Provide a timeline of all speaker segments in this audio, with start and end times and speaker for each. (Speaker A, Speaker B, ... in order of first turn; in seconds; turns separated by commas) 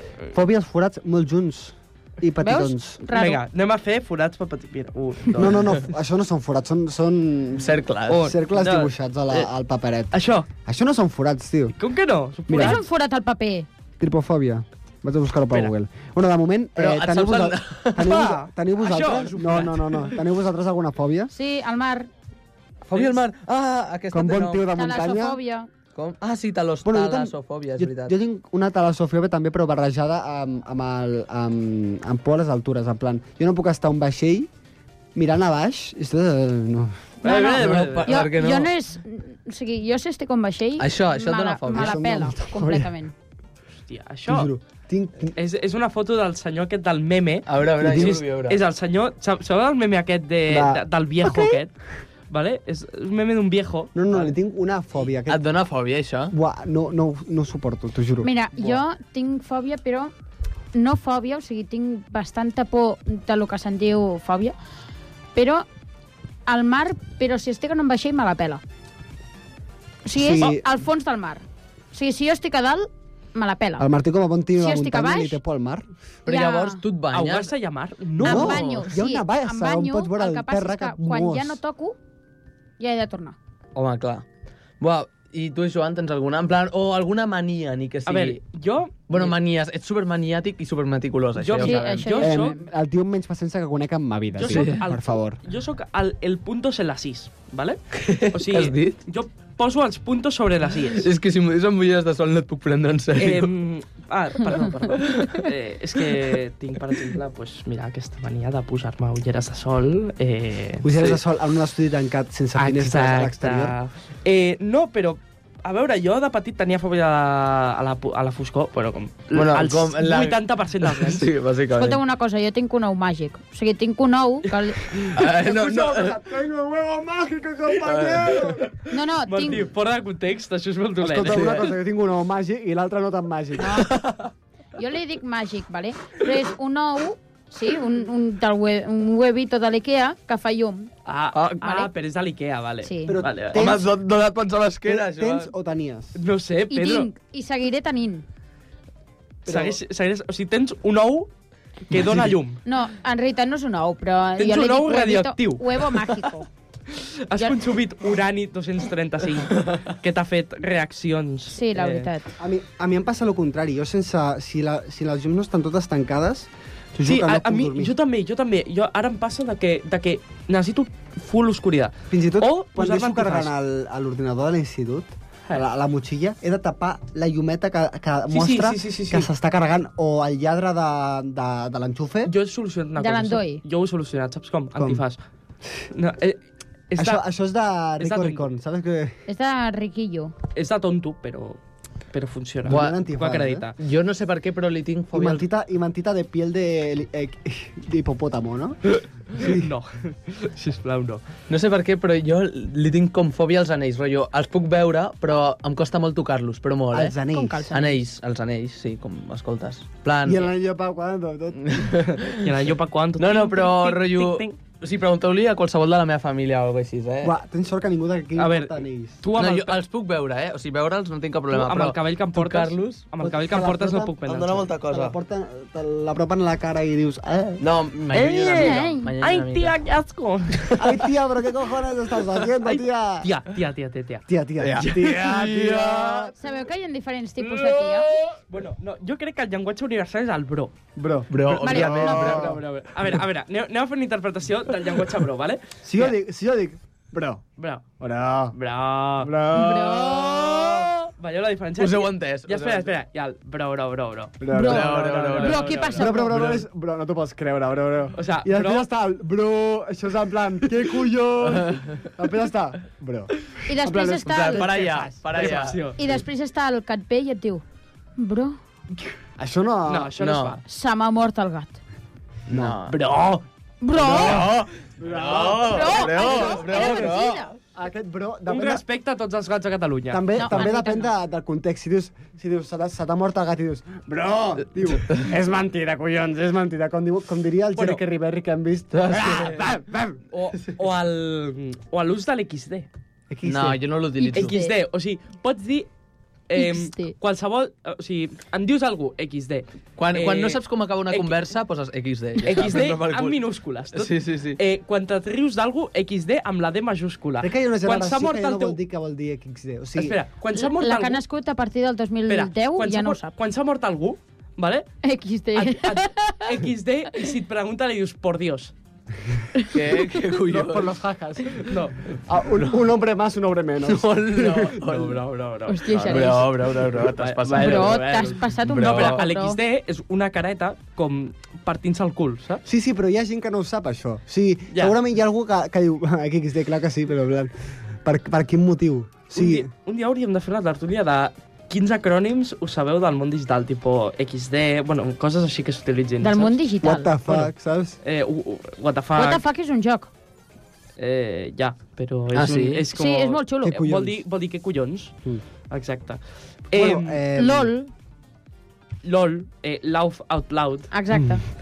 Speaker A: 0.3-3.0, Speaker B: 2.4-3.4, Speaker C: 3.1-5.7, Speaker A: 5.4-11.7, Speaker D: 7.6-8.3, Speaker C: 8.1-9.5, Speaker C: 10.1-10.5, Speaker C: 11.7-12.8, Speaker A: 12.5-12.8, Speaker B: 12.6-13.7, Speaker A: 14.0-21.3, Speaker D: 16.8-18.3, Speaker C: 18.1-20.2, Speaker B: 21.3-22.1, Speaker D: 22.9-24.6, Speaker C: 22.9-23.2, Speaker A: 24.1-25.4, Speaker B: 24.7-25.7, Speaker D: 25.9-28.1, Speaker A: 26.8-34.5, Speaker A: 35.1-37.0, Speaker C: 37.2-38.2, Speaker D: 37.2-38.7, Speaker B: 37.3-43.1, Speaker D: 40.8-42.0, Speaker A: 41.7-42.9, Speaker C: 43.9-44.5, Speaker A: 44.3-45.4, Speaker C: 45.4-51.7, Speaker D: 47.5-48.6, Speaker A: 47.8-48.2, Speaker A: 50.5-51.6, Speaker C: 52.3-54.3, Speaker A: 53.9-55.4, Speaker D: 55.2-56.3, Speaker A: 56.3-58.8, Speaker B: 58.2-60.1, Speaker B: 60.7-64.6, Speaker B: 65.3-65.7, Speaker B: 66.5-68.6, Speaker B: 70.0-73.9, Speaker A: 70.1-70.7, Speaker A: 73.8-75.8, Speaker B: 74.6-75.4, Speaker B: 76.2-76.8, Speaker D: 76.2-77.5, Speaker C: 77.1-78.8, Speaker A: 78.2-81.6, Speaker B: 78.2-82.0, Speaker B: 82.8-83.4, Speaker D: 83.7-84.2, Speaker D: 84.8-88.4, Speaker C: 88.1-89.3, Speaker D: 89.1-92.1, Speaker C: 91.4-92.6, Speaker B: 91.6-92.6, Speaker A: 92.2-95.4, Speaker C: 94.3-97.8, Speaker D: 94.5-94.8, Speaker D: 97.9-99.0, Speaker C: 98.3-101.1, Speaker D: 100.9-103.5, Speaker C: 103.2-110.9, Speaker D: 105.0-105.4, Speaker A: 110.8-113.7, Speaker C: 112.6-121.3, Speaker D: 119.3-122.0, Speaker B: 121.7-124.8, Speaker D: 125.0-126.2, Speaker A: 125.1-128.7, Speaker D: 127.7-128.7, Speaker B: 128.9-129.6, Speaker C: 129.3-131.7, Speaker A: 131.0-133.9, Speaker D: 131.2-131.7, Speaker B: 133.6-134.0, Speaker D: 133.9-134.3, Speaker B: 134.8-140.9, Speaker C: 141.1-143.7, Speaker D: 141.3-141.6, Speaker B: 141.6-141.9, Speaker B: 142.8-143.2, Speaker A: 143.1-144.0, Speaker D: 143.6-145.5, Speaker A: 144.8-146.2, Speaker C: 146.2-147.1, Speaker B: 146.7-148.2, Speaker C: 149.4-151.3, Speaker A: 149.4-149.8, Speaker C: 151.9-152.6, Speaker A: 151.9-152.3, Speaker B: 152.6-156.5, Speaker C: 154.4-155.9, Speaker C: 156.9-162.1, Speaker B: 161.5-162.3, Speaker A: 162.4-167.9, Speaker C: 167.1-173.5, Speaker A: 172.1-182.3, Speaker C: 178.3-179.3, Speaker C: 182.2-185.2, Speaker B: 183.0-183.6, Speaker A: 184.7-185.0, Speaker C: 185.9-187.2, Speaker A: 187.0-189.2, Speaker C: 188.0-188.5, Speaker B: 189.3-190.3, Speaker C: 190.6-191.6, Speaker C: 192.1-193.8, Speaker A: 192.6-193.7, Speaker D: 192.7-193.0, Speaker D: 193.8-195.4, Speaker A: 195.1-198.8, Speaker C: 198.9-201.2, Speaker A: 199.3-199.7, Speaker D: 201.5-207.2, Speaker A: 206.9-207.7, Speaker B: 207.3-208.0, Speaker D: 207.7-210.5, Speaker A: 210.2-212.1, Speaker D: 211.6-212.4, Speaker C: 212.2-214.6, Speaker D: 213.2-217.3, Speaker A: 217.2-219.2, Speaker C: 218.4-219.8, Speaker D: 219.3-223.1, Speaker C: 221.5-224.7, Speaker A: 223.2-224.2, Speaker D: 224.2-225.1, Speaker A: 224.8-227.6, Speaker D: 227.6-229.7, Speaker C: 228.1-230.8, Speaker B: 228.6-229.1, Speaker A: 230.8-233.3, Speaker C: 232.6-234.2, Speaker A: 234.3-236.3, Speaker D: 234.6-236.3, Speaker B: 236.4-238.1, Speaker C: 237.5-240.7, Speaker A: 240.9-242.6, Speaker D: 241.3-242.6, Speaker B: 241.6-242.4, Speaker C: 241.7-246.2, Speaker A: 245.8-247.4, Speaker C: 247.6-247.9, Speaker A: 248.0-248.6, Speaker C: 248.5-249.3, Speaker A: 249.2-250.8, Speaker B: 249.5-250.7, Speaker C: 251.2-256.4, Speaker D: 251.8-252.9, Speaker A: 254.4-266.2, Speaker B: 254.5-256.6, Speaker D: 254.6-255.7, Speaker C: 258.1-258.9, Speaker D: 261.4-262.1, Speaker B: 263.6-264.7, Speaker D: 264.4-265.8, Speaker C: 265.2-266.0, Speaker B: 266.0-267.6, Speaker B: 268.2-268.6, Speaker A: 269.4-270.1, Speaker C: 269.9-270.6, Speaker D: 270.2-270.6, Speaker B: 270.6-271.8, Speaker A: 272.5-272.8, Speaker D: 272.5-272.9, Speaker C: 272.9-273.4, Speaker B: 273.8-274.4, Speaker A: 273.9-277.1, Speaker D: 274.0-277.5, Speaker B: 275.6-277.5, Speaker A: 277.7-278.8, Speaker C: 278.5-280.3, Speaker A: 280.1-290.2, Speaker B: 280.4-281.1, Speaker D: 284.9-285.3, Speaker C: 287.7-288.0, Speaker D: 288.9-289.6, Speaker D: 290.4-290.7, Speaker C: 290.6-292.9, Speaker A: 293.3-293.8, Speaker D: 293.4-294.6, Speaker B: 294.2-294.7, Speaker C: 294.3-295.9, Speaker C: 296.5-301.4, Speaker B: 296.6-297.1, Speaker D: 300.0-303.4, Speaker C: 302.4-308.8, Speaker D: 303.9-304.6, Speaker A: 307.4-310.2, Speaker C: 310.0-311.2, Speaker B: 310.6-313.3, Speaker C: 312.3-314.9, Speaker B: 315.0-316.4, Speaker C: 315.5-318.7, Speaker D: 319.7-320.9, Speaker A: 320.5-325.0, Speaker C: 321.6-322.0, Speaker D: 323.8-325.2, Speaker C: 324.9-326.6, Speaker B: 325.7-326.4, Speaker D: 326.1-329.2, Speaker C: 327.1-332.6, Speaker B: 327.6-329.6, Speaker A: 332.6-337.5, Speaker A: 338.0-339.7, Speaker C: 339.3-346.6, Speaker B: 346.2-347.1, Speaker A: 346.8-348.0, Speaker C: 347.2-347.5, Speaker C: 348.0-349.4, Speaker B: 349.1-350.1, Speaker C: 351.0-355.1, Speaker D: 352.3-352.8, Speaker B: 352.9-353.8, Speaker A: 353.6-354.2, Speaker C: 355.7-357.2, Speaker A: 356.7-357.7, Speaker B: 357.4-357.9, Speaker C: 359.0-361.4, Speaker B: 360.9-361.4